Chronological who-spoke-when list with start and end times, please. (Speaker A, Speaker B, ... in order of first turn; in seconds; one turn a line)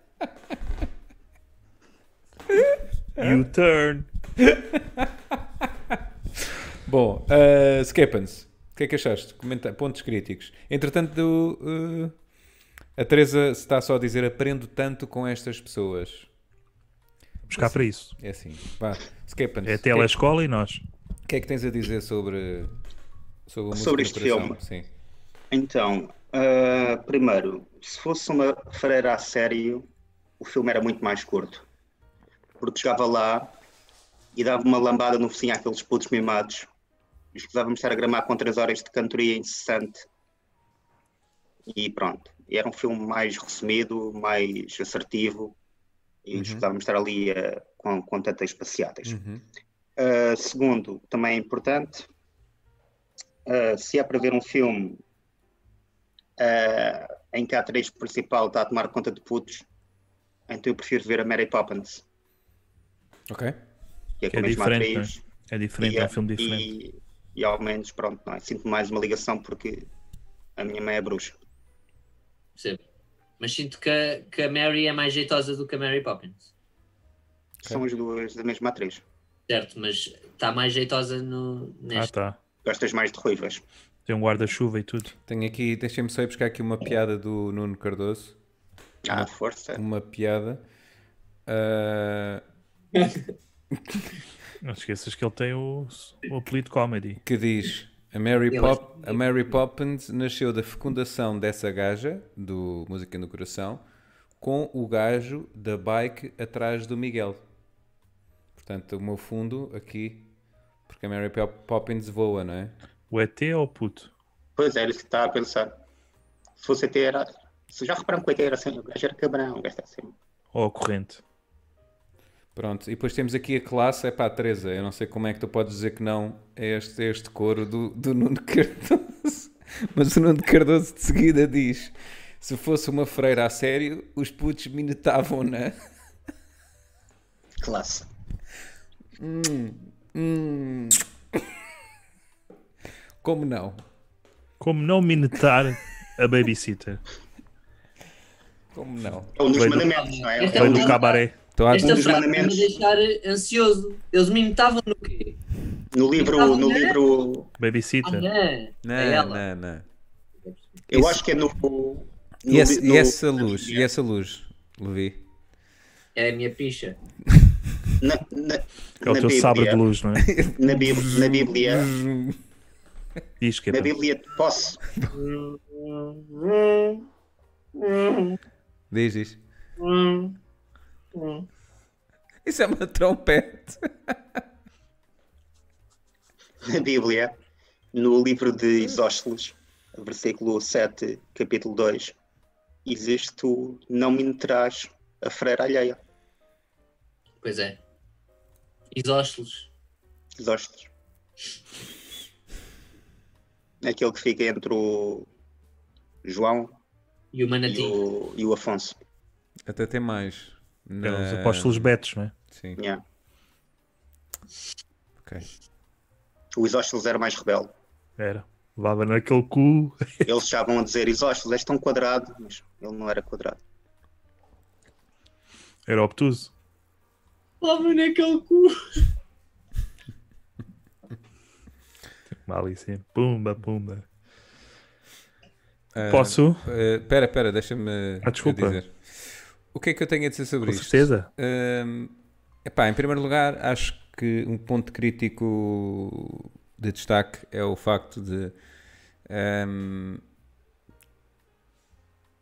Speaker A: 2.6-3.4
Speaker B: 3.2-4.1
Speaker A: 4.4-5.1
Speaker A: 6.8-12.2
Speaker A: 12.9-16.3
Speaker B: 17.5-18.1
Speaker A: 17.6-20.1
Speaker B: 19.6-20.8
Speaker A: 21.2-22.7
Speaker A: 23.5-24.9
Speaker C: 23.7-24.6
Speaker C: 25.5-29.9
Speaker C: 30.4-31.6
Speaker C: 32.6-33.5
Speaker C: 34.3-36.7
Speaker C: 37.3-40.0
Speaker C: 41.7-45.5
Speaker C: 46.2-49.2
Speaker A: 46.3-46.6
Speaker A: 49.0-49.4
Speaker C: 50.0-52.1
Speaker C: 53.5-55.0
Speaker C: 56.4-59.6
Speaker C: 60.5-62.0
Speaker A: 63.3-63.6
Speaker C: 64.2-65.2
Speaker B: 64.3-66.7
Speaker C: 65.8-69.9
Speaker C: 70.6-71.3
Speaker D: 73.4-76.5
Speaker C: 77.6-79.0
Speaker D: 79.5-82.1
Speaker B: 81.9-82.3
Speaker C: 82.6-83.6
Speaker B: 84.0-85.1
Speaker A: 85.3-88.3
Speaker C: 89.0-89.8
Speaker A: 89.1-90.6
Speaker A: 91.5-92.4
Speaker D: 93.0-93.2
Speaker B: 94.6-97.2
Speaker A: 97.2-103.8
Speaker D: 98.5-99.2
Speaker A: 104.4-107.4
Speaker A: 108.5-110.3
Speaker A: 110.9-112.7
Speaker B: 113.1-114.1
Speaker C: 114.6-115.7
Speaker C: 116.6-120.1
Speaker B: 120.5-121.2
Speaker A: 122.5-135.8
Speaker C: 137.6-138.1
Speaker A: 139.2-141.4
Speaker A: 143.2-143.8
Speaker B: 144.6-147.0
Speaker A: 148.7-149.3
Speaker C: 149.3-151.0
Speaker B: 149.5-151.3
Speaker D: 149.9-155.4
Speaker A: 151.5-152.1
Speaker C: 151.7-152.8
Speaker C: 155.9-157.5
Speaker D: 156.2-157.0
Speaker B: 157.6-158.3
Speaker D: 158.0-159.4
Speaker A: 158.8-159.8
Speaker C: 160.9-163.8
Speaker A: 160.9-161.2
Speaker A: 162.5-165.2
Speaker D: 166.1-167.0
Speaker C: 168.0-169.8
Speaker B: 169.0-170.3
Speaker A: 170.2-172.4
Speaker C: 170.5-171.9
Speaker B: 173.4-173.9
Speaker C: 173.7-174.8
Speaker D: 175.1-177.0
Speaker D: 177.7-178.4
Speaker A: 178.9-179.4
Speaker D: 179.8-180.3
Speaker D: 181.1-181.4
Speaker A: 182.4-184.4
Speaker C: 186.6-187.3
Speaker C: 187.9-192.1
Speaker C: 192.8-196.0
Speaker D: 197.4-197.8
Speaker D: 198.9-199.7
Speaker C: 200.4-200.9
Speaker C: 203.8-205.3
Speaker C: 206.2-206.8
Speaker D: 207.3-208.0
Speaker C: 207.7-208.9
Speaker A: 209.7-211.9
Speaker B: 211.0-212.3
Speaker A: 212.5-212.8
Speaker A: 215.2-215.5
Speaker C: 216.5-217.7
Speaker B: 218.2-220.3
Speaker C: 220.2-223.6
Speaker B: 225.9-226.5
Speaker D: 227.6-229.0
Speaker B: 232.4-234.1
Speaker A: 235.9-248.5
Speaker B: 236.1-236.7
Speaker B: 238.2-238.8
Speaker B: 240.6-241.3
Speaker A: 249.3-250.2